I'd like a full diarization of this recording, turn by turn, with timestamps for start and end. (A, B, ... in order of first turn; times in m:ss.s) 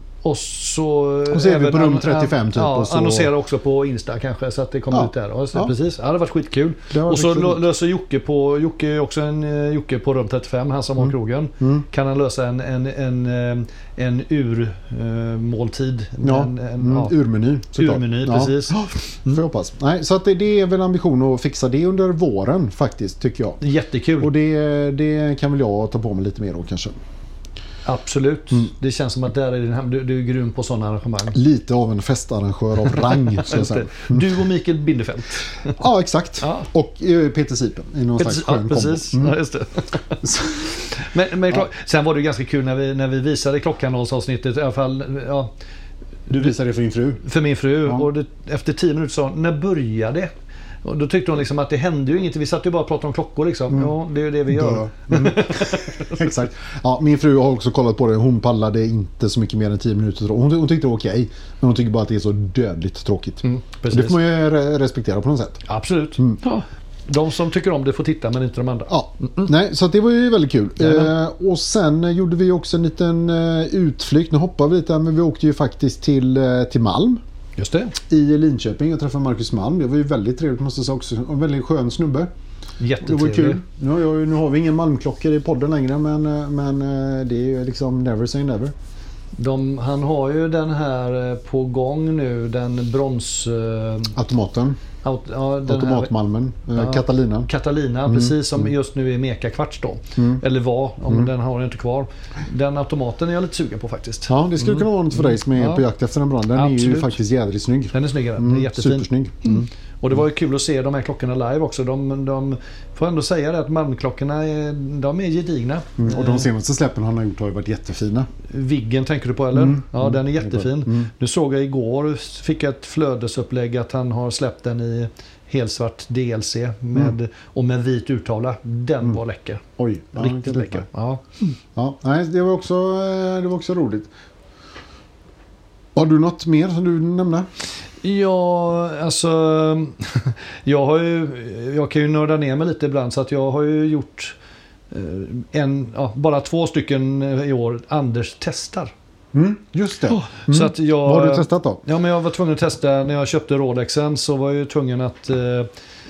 0:00.2-0:17.1 A
0:01.3-0:03.3 B
0:04.9-0:05.7 B
0:06.9-0:07.6 B
0:11.0-0:11.9 B
0:16.2-0:23.6 B
0:17.8-0:19.4 A
0:23.6-0:24.3 A
0:24.2-0:27.0 B
0:27.9-0:31.4 A
0:31.3-0:34.3 B
0:33.1-0:35.7 A
0:35.7-0:39.4 B
0:36.4-0:36.7 A
0:38.2-0:40.2 A
0:40.2-0:40.9 B
0:40.9-0:45.5 A
0:46.3-0:47.2 B
0:47.2-0:50.3 A
0:50.8-0:56.3 A
0:54.5-1:05.6 B
1:03.4-1:04.2 A
1:05.7-1:09.5 A
1:08.9-1:17.2 B
1:10.8-1:11.1 A
1:17.6-1:18.0 A
1:18.1-1:22.3 B
1:22.8-1:23.6 A
1:23.0-1:28.7 B
1:29.4-1:34.1 A
1:34.1-1:34.8 B
1:35.0-1:36.1 A
1:35.6-1:37.5 B
1:36.8-1:45.8 A
1:38.1-1:38.7 B
1:40.2-1:40.4 B
1:44.3-1:49.7 B
1:46.5-1:47.2 A
1:47.9-1:56.5 A
1:56.0-1:58.3 B
1:58.5-2:09.6 A
1:59.5-2:01.1 B
2:09.8-2:10.9 B
2:10.2-2:11.3 A
2:11.8-2:14.1 B
2:16.0-2:17.5 B
2:18.0-2:24.4 A
2:24.9-2:28.9 A
2:29.3-2:31.8 B
2:30.1-2:35.7 A